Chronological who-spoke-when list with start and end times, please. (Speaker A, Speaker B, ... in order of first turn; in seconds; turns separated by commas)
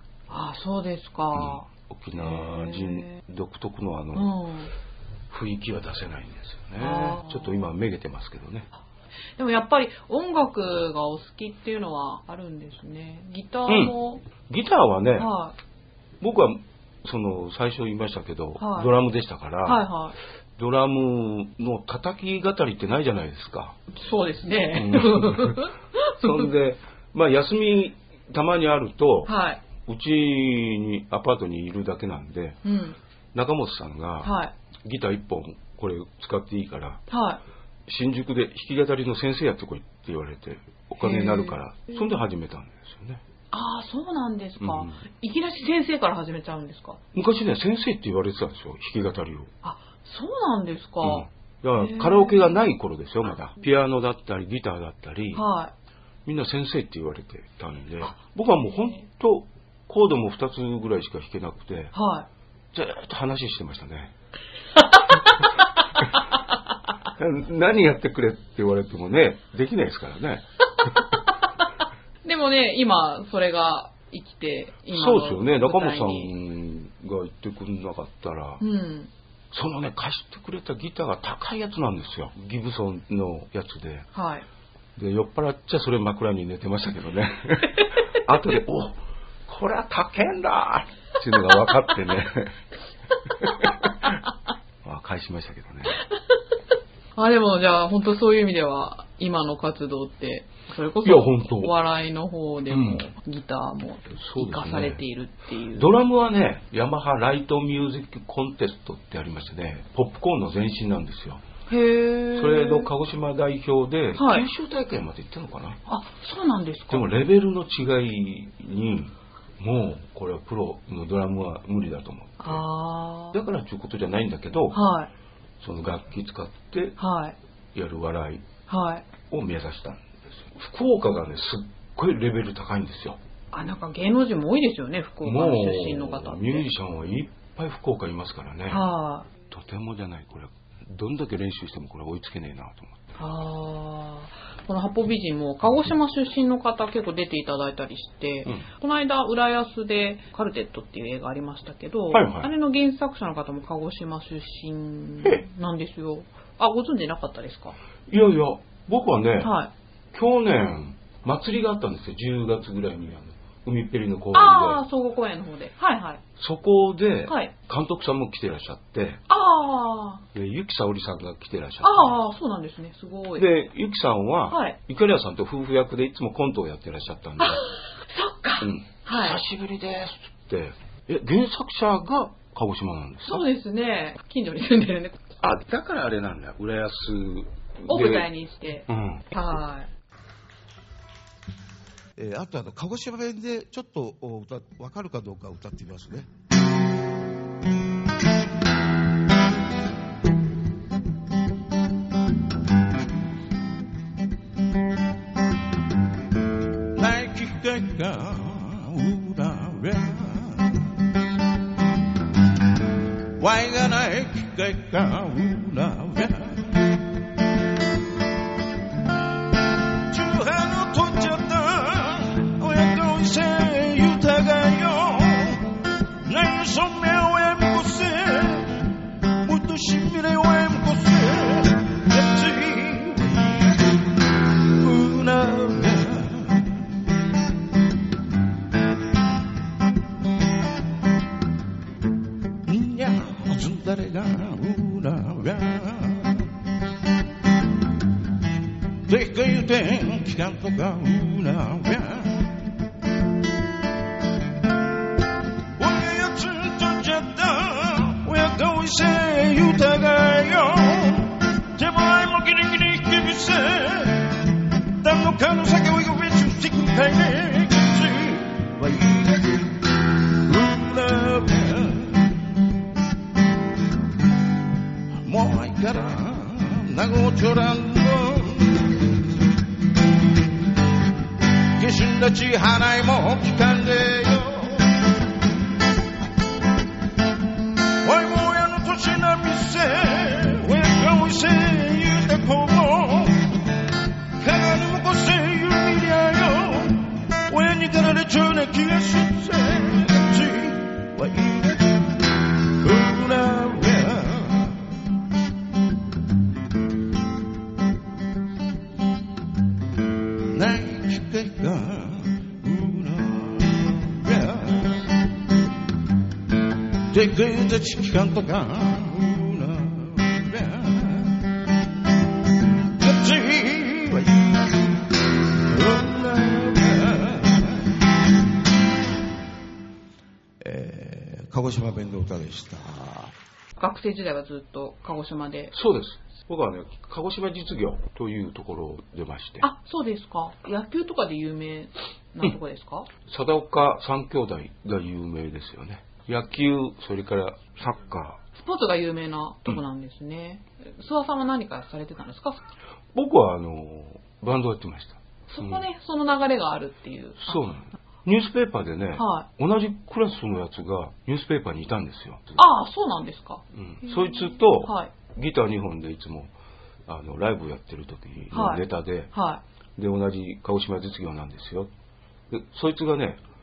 Speaker A: 0.3-3.2, Speaker B: 1.3-4.3, Speaker A: 4.1-4.7, Speaker B: 5.3-8.7, Speaker A: 6.8-7.6, Speaker A: 9.4-14.2, Speaker B: 13.7-13.9, Speaker B: 14.5-15.3, Speaker A: 15.2-15.6, Speaker B: 16.2-19.9, Speaker A: 18.6-18.9, Speaker A: 19.6-20.2, Speaker B: 20.6-23.8, Speaker A: 23.9-26.5, Speaker B: 24.7-25.6, Speaker B: 26.2-29.3, Speaker A: 29.3-29.6, Speaker B: 29.8-32.6, Speaker A: 32.6-33.0, Speaker B: 33.3-37.0, Speaker A: 34.2-34.5, Speaker A: 37.1-37.4, Speaker B: 37.9-43.2, Speaker A: 41.0-41.6, Speaker A: 43.5-47.0, Speaker B: 44.6-45.0, Speaker B: 47.1-49.5, Speaker A: 49.6-52.5, Speaker B: 51.0-55.4, Speaker A: 55.3-55.7, Speaker B: 56.2-61.9, Speaker A: 61.9-62.3, Speaker B: 62.7-64.1, Speaker A: 64.8-65.5, Speaker B: 67.2-71.0, Speaker A: 72.2-76.3, Speaker B: 74.9-78.6, Speaker A: 78.6-79.1, Speaker B: 79.5-84.1, Speaker A: 84.1-84.5, Speaker B: 85.0-92.6, Speaker B: 93.4-94.2, Speaker B: 94.8-96.0, Speaker A: 97.2-105.9, Speaker B: 101.0-101.7, Speaker B: 102.7-103.1, Speaker B: 104.2-105.0, Speaker B: 105.7-111.4, Speaker A: 111.7-112.9, Speaker B: 112.3-115.8, Speaker A: 114.2-114.5, Speaker A: 115.9-117.1, Speaker B: 116.9-122.7, Speaker A: 122.4-123.4, Speaker B: 123.3-124.8, Speaker A: 124.7-125.1, Speaker B: 125.6-127.0, Speaker A: 127.0-127.4, Speaker B: 127.7-128.5, Speaker A: 128.7-129.1, Speaker B: 129.3-133.2, Speaker A: 133.5-136.7, Speaker B: 135.2-138.9, Speaker A: 138.7-139.3, Speaker B: 139.5-143.0, Speaker A: 143.2-157.8, Speaker B: 152.1-152.5, Speaker B: 158.1-159.5, Speaker A: 159.4-159.7, Speaker B: 160.1-164.8, Speaker A: 164.3-166.2, Speaker B: 166.4-169.2, Speaker A: 167.3-167.5, Speaker A: 169.3-170.2, Speaker B: 170.3-172.2, Speaker A: 171.8-173.5, Speaker B: 173.4-177.6, Speaker A: 174.5-174.8, Speaker A: 177.4-179.4, Speaker B: 178.6-183.5, Speaker A: 183.2-185.3, Speaker B: 185.4-188.3, Speaker A: 187.9-189.9, Speaker B: 188.9-189.3, Speaker C: 192.2-196.3, Speaker C: 206.9-210.9, Speaker C: 213.4-216.9, Speaker C: 220.1-225.7, Speaker C: 226.2-228.9, Speaker C: 229.4-234.0, Speaker C: 234.8-236.8, Speaker C: 242.7-246.5, Speaker C: 249.1-252.7, Speaker C: 255.8-264.5, Speaker C: 265.0-272.4, Speaker C: 275.2-279.1, Speaker C: 281.8-285.0, Speaker C: 288.0-293.6, Speaker C: 294.4-302.1, Speaker C: 302.8-304.9, Speaker C: 310.5-315.1, Speaker C: 317.1-321.5, Speaker C: 322.9-324.9, Speaker C: 325.6-327.8, Speaker C: 330.6-333.3, Speaker A: 333.8-335.7, Speaker B: 335.7-339.6, Speaker A: 339.6-343.1, Speaker B: 343.3-348.4, Speaker A: 348.6-352.6, Speaker B: 353.1-355.9, Speaker A: 355.5-357.6, Speaker B: 357.4-362.6, Speaker A: 359.2-359.5, Speaker A: 362.6-365.1, Speaker B: 363.7-366.5, Speaker B: 367.1-369.3, Speaker A: 368.5-369.6, Speaker B: 370.0-371.9, Speaker B: 372.5-373.4